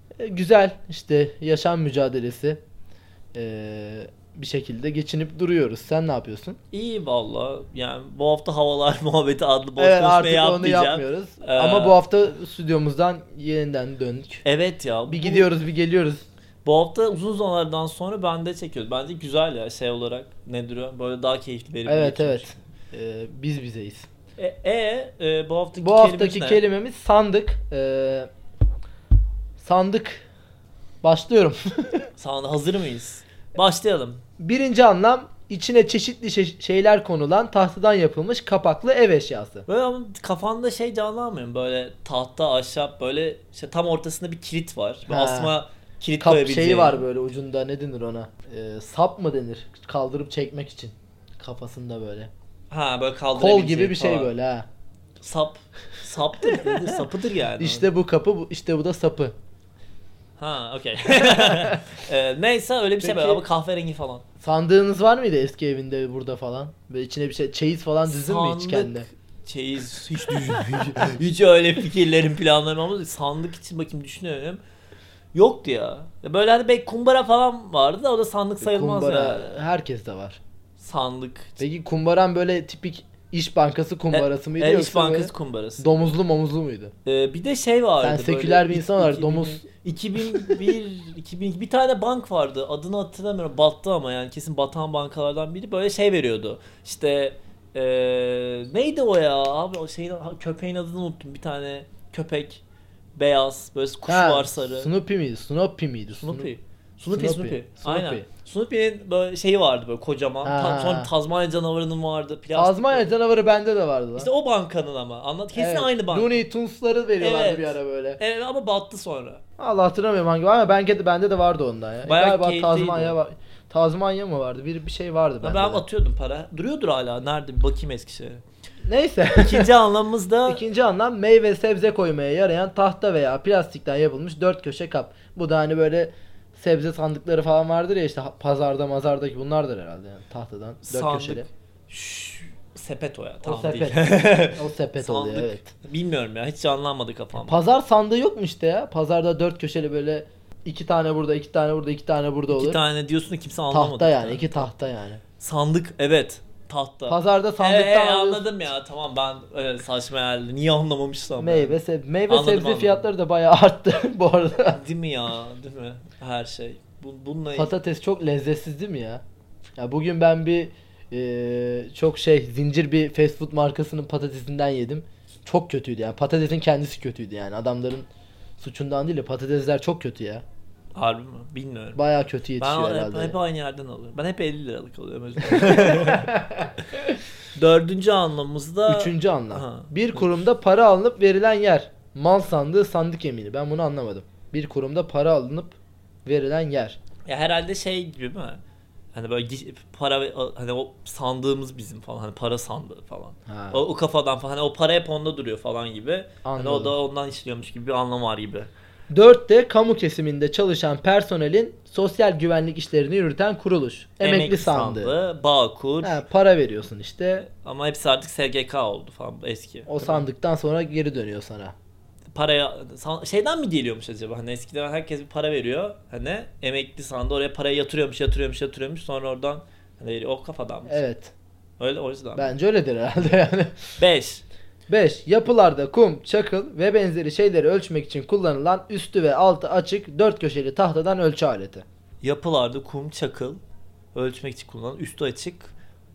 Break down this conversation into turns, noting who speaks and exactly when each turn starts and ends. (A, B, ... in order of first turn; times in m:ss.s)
0:00.2-0:02.6 A
0:03.3-0:06.6 A
0:06.7-0:12.0 B
0:09.8-0:14.4 A
0:14.4-0:15.5 B
0:15.1-0:16.2 A
0:16.6-0:22.5 B
0:21.8-0:24.1 A
0:24.4-0:26.6 B
0:25.8-0:28.3 A
0:29.6-0:30.2 A
0:31.0-0:32.1 A
0:32.2-0:34.2 B
0:34.4-0:39.6 A
0:39.7-0:47.0 B
0:45.1-0:45.5 A
0:46.2-0:52.3 A
0:52.7-0:54.3 B
0:53.3-0:54.7 A
0:55.2-0:57.9 B
0:57.6-0:59.3 A
1:00.4-1:04.2 B
1:01.3-1:01.8 A
1:03.0-1:03.4 A
1:04.4-1:09.1 A
1:08.0-1:14.6 B
1:15.3-1:19.5 B
1:18.6-1:20.4 A
1:20.8-1:21.6 B
1:21.6-1:26.9 A
1:24.1-1:26.1 B
1:27.0-1:42.6 B
1:28.0-1:29.6 A
1:30.3-1:30.6 A
1:43.2-1:44.9 B
1:44.1-1:46.5 A
1:46.2-1:53.1 B
1:47.1-1:48.2 A
1:50.4-1:51.1 A
1:52.5-1:54.3 A
1:54.2-1:56.4 B
1:55.5-1:58.2 A
1:57.2-1:59.4 B
1:59.6-2:05.8 A
2:02.0-2:03.1 B
2:05.4-2:08.4 B
2:08.8-2:09.7 A
2:09.3-2:10.6 B
2:10.5-2:21.4 A
2:20.8-2:27.6 B
2:23.4-2:25.7 A
2:27.4-2:32.8 A
2:32.5-2:34.7 B
2:33.7-2:35.2 A
2:35.4-2:41.7 B
2:37.1-2:38.5 A
2:41.4-2:44.8 A
2:42.3-2:43.0 B
2:44.7-2:47.7 B
2:47.5-2:49.2 A
2:49.8-2:58.0 A
2:58.6-3:00.4 A
3:00.9-3:02.0 B
3:01.9-3:03.4 A
3:02.6-3:06.4 B
3:05.4-3:06.6 A
3:07.5-3:10.3 B
3:08.9-3:17.0 A
3:17.2-3:18.6 B
3:19.1-3:28.7 B
3:23.5-3:23.8 A
3:26.4-3:26.9 A
3:29.1-3:35.1 A
3:34.2-3:36.2 B
3:36.0-3:37.5 A
3:37.4-3:40.2 B
3:39.9-3:41.7 A
3:42.3-3:51.0 B
3:50.9-3:51.3 A
3:51.8-3:52.5 B
3:52.4-3:53.8 A
3:54.0-3:54.4 B
3:54.9-4:01.8 A
4:02.2-4:03.6 B
4:04.1-4:05.7 B